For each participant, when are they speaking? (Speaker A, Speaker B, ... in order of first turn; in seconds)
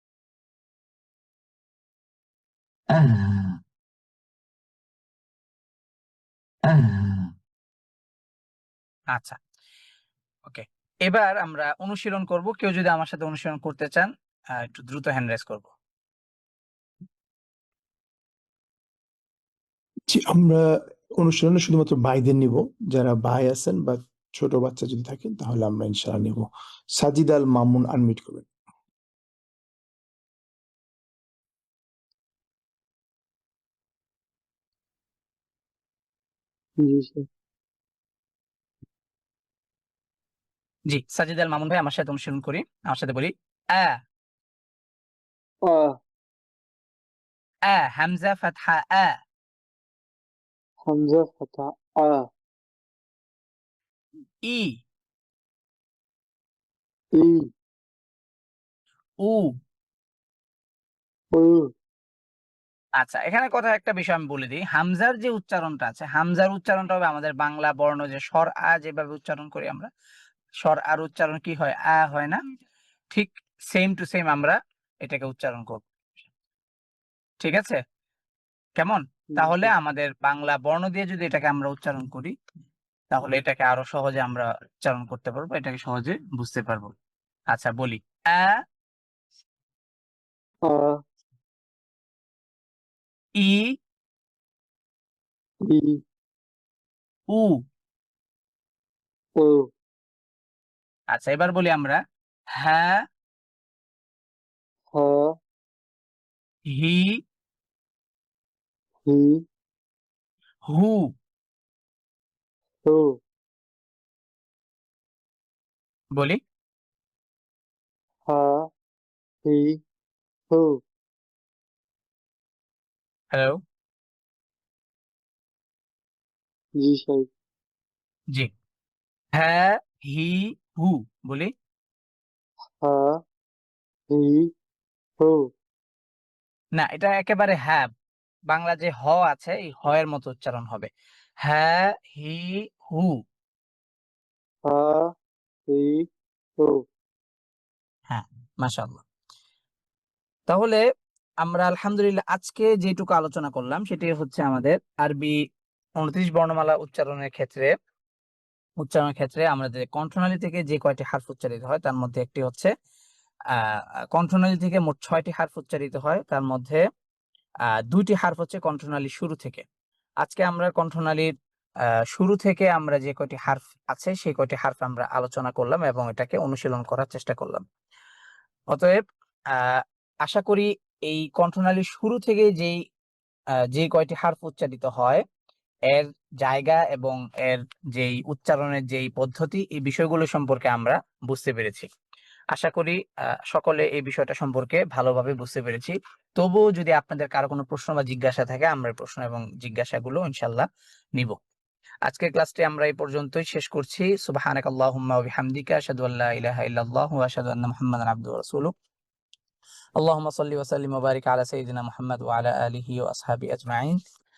Speaker A: 2.9-3.5, 6.7-7.2, 10.5-15.7, 40.9-44.0, 47.7-49.1, 54.5-54.7, 63.0-69.9, 70.6-72.4, 73.1-75.8, 77.4-77.8, 78.8-82.3, 83.1-86.9, 87.5-88.6, 93.4-93.7, 97.3-97.5, 101.1-102.0, 102.6-103.0, 106.7-107.2, 110.7-111.1, 123.3-123.6, 129.3-131.5, 136.8-137.9, 138.5-140.9, 141.4-143.2, 148.1-149.0, 150.5-150.8, 151.4-155.3, 156.0-157.7, 158.8-162.7, 163.5-166.8, 167.9-169.6, 170.2-171.3, 172.1-177.6, 178.7-179.0, 179.5-182.8, 183.7-185.2, 185.9-191.9, 192.5-193.0, 193.5-200.7, 202.1-208.7, 210.0-214.0
Speaker B: 20.1-20.6, 21.2-28.5
Speaker C: 36.8-37.2, 45.7-45.9, 50.9-52.2, 57.2-57.5, 61.4-61.7, 79.4-79.7, 90.7-90.9, 95.7-96.0, 99.4-99.7, 104.9-105.3, 109.0-109.4, 112.9-113.1, 118.3-118.7, 119.5-119.8, 120.5-120.8, 126.8-127.3, 132.8-133.2, 134.1-134.5, 144.7-145.1, 145.7-146.0